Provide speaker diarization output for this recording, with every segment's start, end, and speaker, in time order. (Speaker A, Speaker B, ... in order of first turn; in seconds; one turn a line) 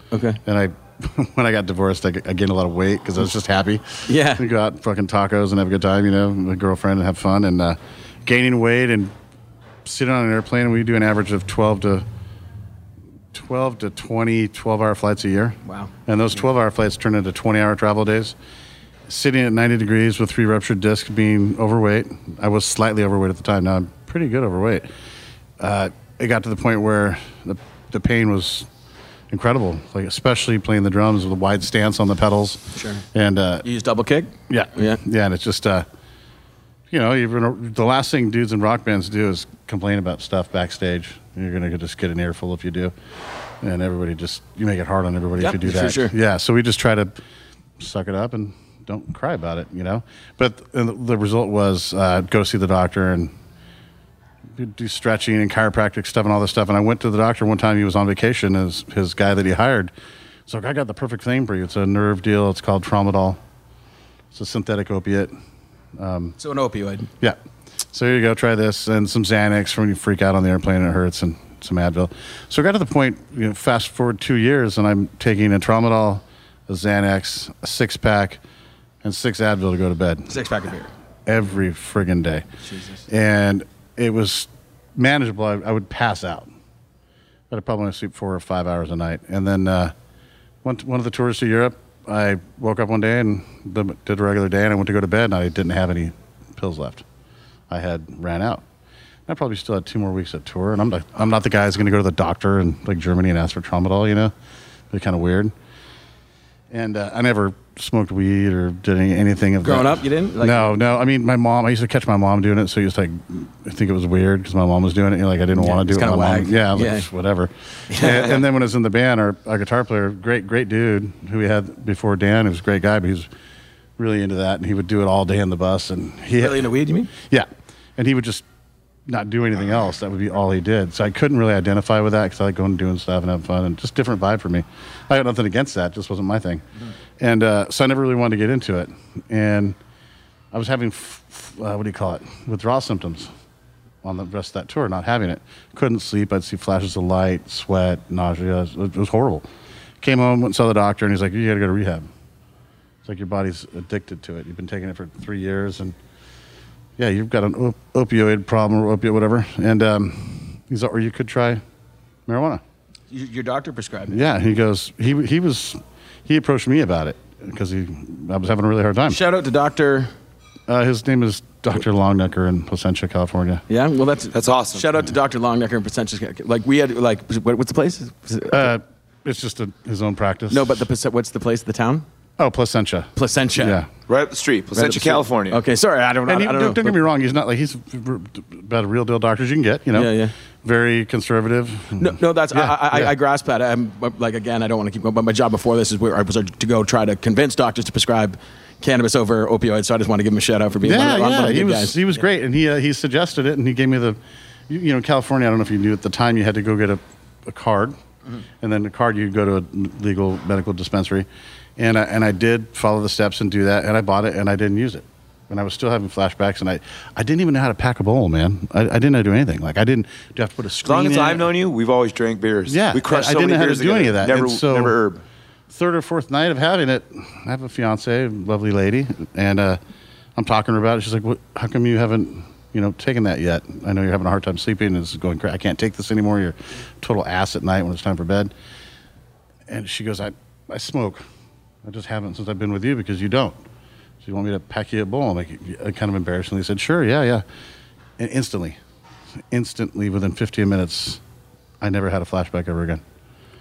Speaker A: 0.1-0.4
Speaker B: 0.4-9.1
Speaker A: 4.1-4.5
Speaker B: 9.8-12.0
Speaker B: 13.3-18.4
Speaker A: 15.6-15.9
Speaker B: 19.1-24.9
Speaker B: 25.6-28.7
Speaker B: 29.3-33.6
Speaker A: 32.7-33.0
Speaker A: 33.6-35.0
Speaker B: 34.5-35.9
Speaker B: 36.9-42.9
Speaker B: 43.6-47.1
Speaker A: 45.4-46.1
Speaker B: 47.8-53.3
Speaker B: 54.5-59.9
Speaker B: 60.5-63.4
Speaker B: 64.3-65.3
Speaker B: 66.0-66.4
Speaker A: 66.4-67.1
Speaker B: 67.9-78.4
Speaker B: 79.0-80.3
Speaker A: 80.3-80.9
Speaker B: 81.2-82.5
Speaker A: 82.6-83.0
Speaker B: 83.1-86.5
Speaker B: 87.5-89.9
Speaker B: 90.6-97.0
Speaker B: 97.7-98.6
Speaker B: 99.3-104.3
Speaker B: 104.9-105.5
Speaker B: 106.7-123.3
Speaker A: 109.6-110.7
Speaker A: 115.5-117.1
Speaker A: 117.9-118.4
Speaker B: 124.0-128.4
Speaker A: 126.4-127.1
Speaker B: 129.1-136.6
Speaker B: 137.2-139.8
Speaker B: 140.5-143.3
Speaker B: 144.0-149.4
Speaker B: 150.0-152.1
Speaker B: 153.0-155.9
Speaker B: 157.0-161.6
Speaker B: 162.3-162.6
Speaker A: 163.1-164.2
Speaker B: 164.1-169.2
Speaker A: 169.1-170.1
Speaker B: 170.7-173.6
Speaker A: 173.7-178.7
Speaker C: 174.3-175.0
Speaker B: 178.5-180.8
Speaker A: 180.5-182.1
Speaker B: 182.4-183.9
Speaker A: 183.2-183.8
Speaker C: 184.1-185.6
Speaker A: 184.8-187.0
Speaker B: 186.2-193.1
Speaker A: 189.9-190.3
Speaker A: 192.0-202.2
Speaker B: 200.8-204.2
Speaker B: 204.7-208.0
Speaker B: 208.6-221.5
Speaker C: 220.8-225.2
Speaker B: 222.7-225.0
Speaker B: 225.7-229.8
Speaker B: 230.3-238.5
Speaker B: 239.7-241.2
Speaker B: 241.8-243.6
Speaker B: 244.2-247.4
Speaker B: 248.2-248.8
Speaker B: 249.5-251.2
Speaker B: 251.8-253.0